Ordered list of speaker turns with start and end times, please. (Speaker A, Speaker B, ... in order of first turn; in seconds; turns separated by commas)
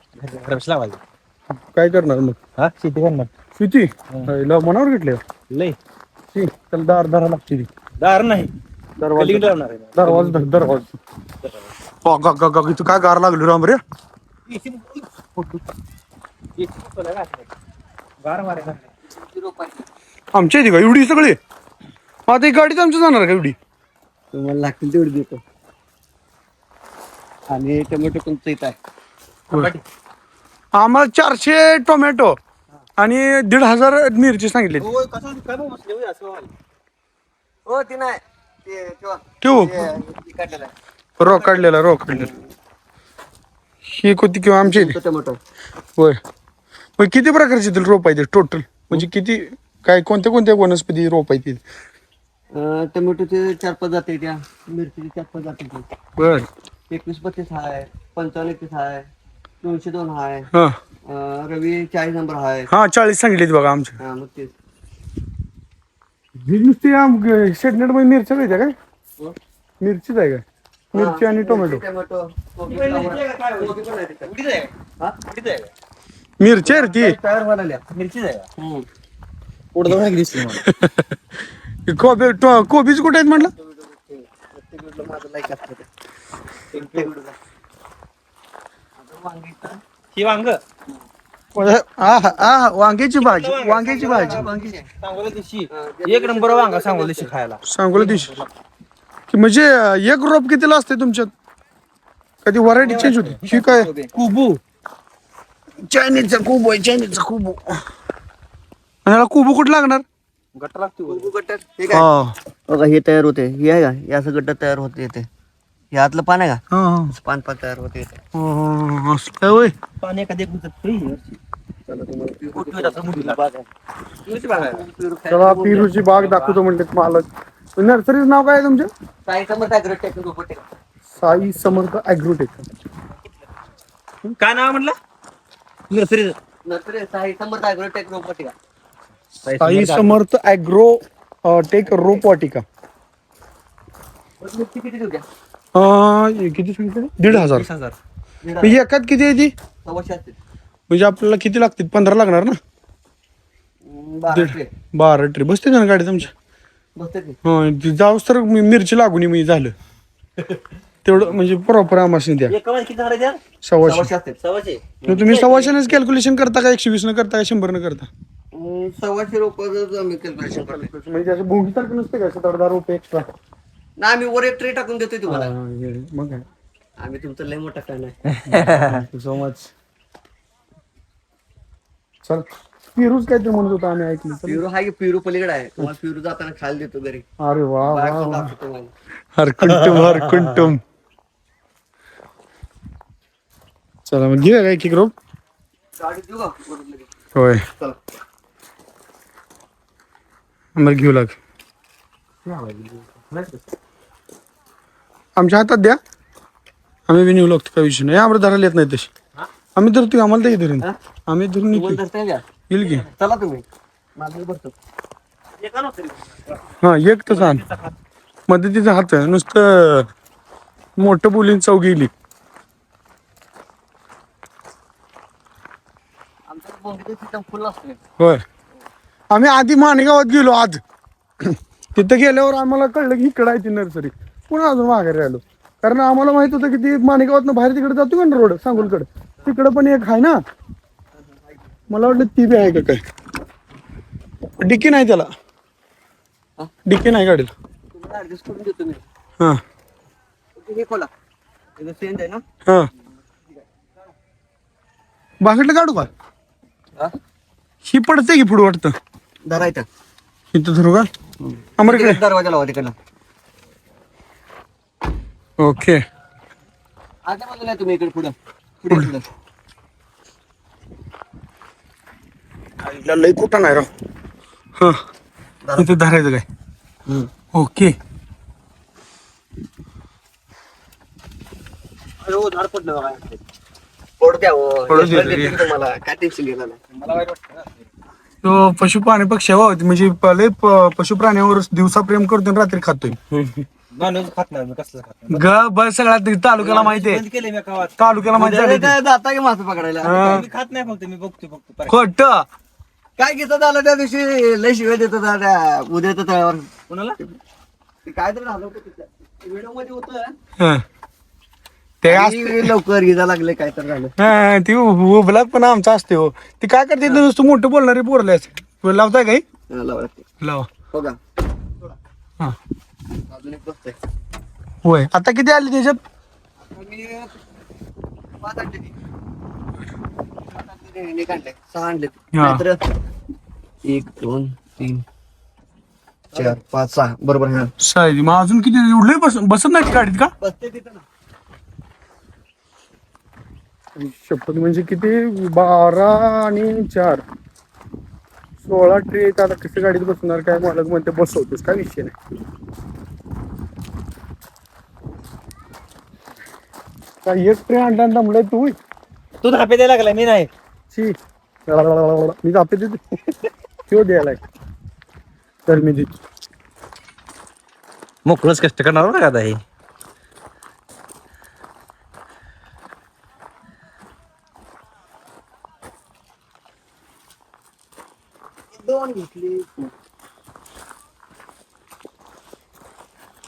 Speaker A: 0.2-1.0, Speaker B: 1.7-2.4, Speaker A: 2.6-3.3, Speaker B: 3.6-5.2, Speaker A: 5.5-5.8, Speaker B: 6.3-7.7, Speaker A: 8.0-8.5, Speaker B: 9.0-10.9, Speaker A: 9.2-10.5, Speaker A: 11.4-11.7, Speaker B: 12.0-13.8, Speaker A: 14.5-15.6, Speaker A: 16.6-17.5, Speaker A: 18.2-18.9, Speaker C: 19.1-19.9, Speaker B: 20.4-21.4, Speaker B: 22.3-23.6, Speaker C: 24.3-25.4, Speaker C: 27.5-28.8, Speaker A: 29.5-29.8, Speaker B: 30.7-32.4, Speaker B: 33.0-34.9, Speaker A: 34.8-36.5, Speaker C: 37.7-42.5, Speaker B: 39.4-39.9, Speaker B: 41.2-42.3, Speaker B: 43.9-45.0, Speaker C: 44.6-45.4, Speaker B: 47.0-51.6, Speaker C: 52.5-55.9, Speaker B: 56.2-56.5, Speaker C: 56.9-59.1, Speaker C: 59.6-60.5, Speaker B: 60.5-60.8, Speaker C: 61.1-62.7, Speaker B: 62.7-64.0, Speaker C: 64.0-64.5, Speaker B: 66.4-68.8, Speaker B: 69.8-71.8, Speaker C: 70.9-74.3, Speaker A: 72.7-75.7, Speaker B: 76.4-77.2, Speaker C: 76.6-77.8, Speaker A: 77.9-78.5, Speaker C: 78.6-78.9, Speaker A: 79.7-80.7, Speaker B: 80.5-81.2, Speaker B: 81.9-83.5, Speaker C: 83.4-85.9, Speaker C: 86.7-87.4, Speaker A: 86.7-87.1, Speaker C: 89.0-89.8, Speaker A: 90.1-90.6, Speaker B: 91.5-94.5, Speaker C: 92.0-92.5, Speaker A: 93.2-98.5, Speaker C: 94.1-94.9, Speaker C: 95.7-97.3, Speaker B: 97.7-98.3, Speaker B: 99.3-101.3, Speaker B: 102.5-103.9, Speaker A: 102.8-104.6, Speaker B: 105.8-107.8, Speaker B: 109.0-110.0, Speaker A: 110.5-111.3, Speaker C: 111.1-112.1, Speaker B: 111.9-112.4, Speaker C: 112.7-115.3, Speaker C: 115.9-116.6, Speaker B: 116.7-117.2, Speaker C: 117.2-118.2, Speaker B: 118.3-119.8, Speaker A: 120.0-121.4, Speaker C: 121.9-123.7, Speaker A: 122.5-123.5, Speaker C: 124.2-126.0, Speaker A: 124.3-124.8, Speaker B: 125.3-128.9, Speaker A: 126.1-126.6, Speaker C: 129.3-130.7, Speaker B: 131.2-132.7, Speaker A: 134.4-135.0, Speaker A: 135.9-136.4, Speaker C: 136.6-138.6, Speaker A: 139.4-140.2, Speaker B: 139.6-142.7, Speaker C: 141.8-142.2, Speaker C: 144.4-145.3, Speaker B: 145.8-147.7, Speaker A: 147.3-148.0, Speaker C: 148.4-148.9, Speaker B: 148.6-149.5, Speaker C: 149.8-150.4, Speaker B: 150.9-152.6, Speaker C: 153.8-154.7, Speaker B: 154.3-156.3, Speaker C: 157.0-157.4, Speaker B: 157.4-159.7, Speaker B: 161.1-162.6, Speaker A: 162.5-163.4, Speaker B: 163.6-164.1, Speaker C: 163.8-164.4, Speaker A: 164.4-164.8, Speaker C: 165.0-165.9, Speaker B: 165.1-168.1, Speaker C: 168.5-170.9, Speaker B: 170.4-173.3, Speaker C: 174.0-175.5, Speaker B: 175.3-176.5, Speaker C: 177.0-178.2, Speaker A: 178.3-179.1, Speaker B: 178.5-179.7, Speaker B: 182.2-184.6, Speaker C: 184.5-187.3, Speaker B: 187.4-188.5, Speaker C: 187.8-188.9, Speaker B: 189.4-190.8, Speaker A: 189.6-190.7, Speaker B: 194.1-195.1, Speaker C: 196.0-197.1, Speaker B: 197.3-197.7, Speaker B: 200.8-201.4, Speaker A: 202.5-203.5, Speaker B: 205.4-206.0, Speaker B: 207.1-209.1, Speaker B: 209.8-212.0, Speaker C: 211.7-212.4, Speaker B: 212.7-213.1, Speaker C: 213.1-214.7, Speaker A: 215.6-216.5, Speaker B: 216.8-217.6, Speaker A: 217.3-217.9, Speaker B: 218.5-220.1, Speaker B: 221.0-222.1, Speaker C: 226.5-228.0, Speaker B: 228.2-228.4, Speaker B: 229.3-230.8, Speaker B: 231.4-240.4, Speaker C: 241.2-241.7, Speaker B: 241.9-243.0, Speaker B: 244.6-245.3, Speaker B: 246.9-247.5, Speaker C: 247.9-249.0, Speaker C: 250.6-251.1, Speaker C: 251.8-252.4, Speaker B: 255.4-256.1, Speaker B: 257.9-259.0, Speaker C: 259.5-259.9, Speaker B: 260.5-261.1, Speaker C: 261.4-262.9, Speaker B: 261.8-262.2, Speaker B: 265.6-266.0, Speaker C: 267.2-269.3, Speaker B: 272.8-273.9, Speaker C: 275.6-276.0, Speaker B: 275.8-276.5, Speaker B: 277.5-278.0, Speaker A: 282.3-283.2, Speaker C: 282.4-283.2, Speaker C: 284.2-286.8, Speaker B: 284.9-285.7, Speaker A: 285.0-285.5, Speaker A: 286.9-287.9, Speaker B: 288.4-293.7, Speaker A: 293.9-295.6, Speaker B: 295.3-297.2, Speaker A: 296.6-298.0, Speaker B: 298.0-299.0, Speaker C: 298.3-300.5, Speaker B: 300.0-300.4, Speaker A: 300.1-302.0, Speaker B: 301.9-302.5, Speaker C: 303.2-307.4, Speaker A: 306.9-307.2, Speaker C: 308.1-310.4, Speaker B: 310.6-310.8, Speaker B: 312.0-312.8, Speaker C: 312.1-314.1, Speaker B: 314.2-319.4, Speaker C: 319.7-320.3, Speaker B: 320.4-320.7, Speaker C: 320.9-321.2, Speaker C: 323.3-324.0, Speaker B: 324.8-326.0, Speaker C: 326.6-327.4, Speaker C: 328.4-328.9, Speaker C: 330.5-332.9, Speaker B: 332.3-332.6, Speaker C: 333.9-335.0, Speaker C: 336.3-337.7, Speaker B: 337.8-340.3, Speaker C: 340.4-341.1, Speaker B: 344.0-347.2, Speaker B: 348.6-352.2, Speaker B: 357.2-358.8, Speaker A: 359.4-360.5, Speaker B: 361.7-363.2, Speaker B: 363.9-364.4, Speaker B: 365.7-366.1, Speaker A: 368.2-369.6, Speaker C: 378.7-379.9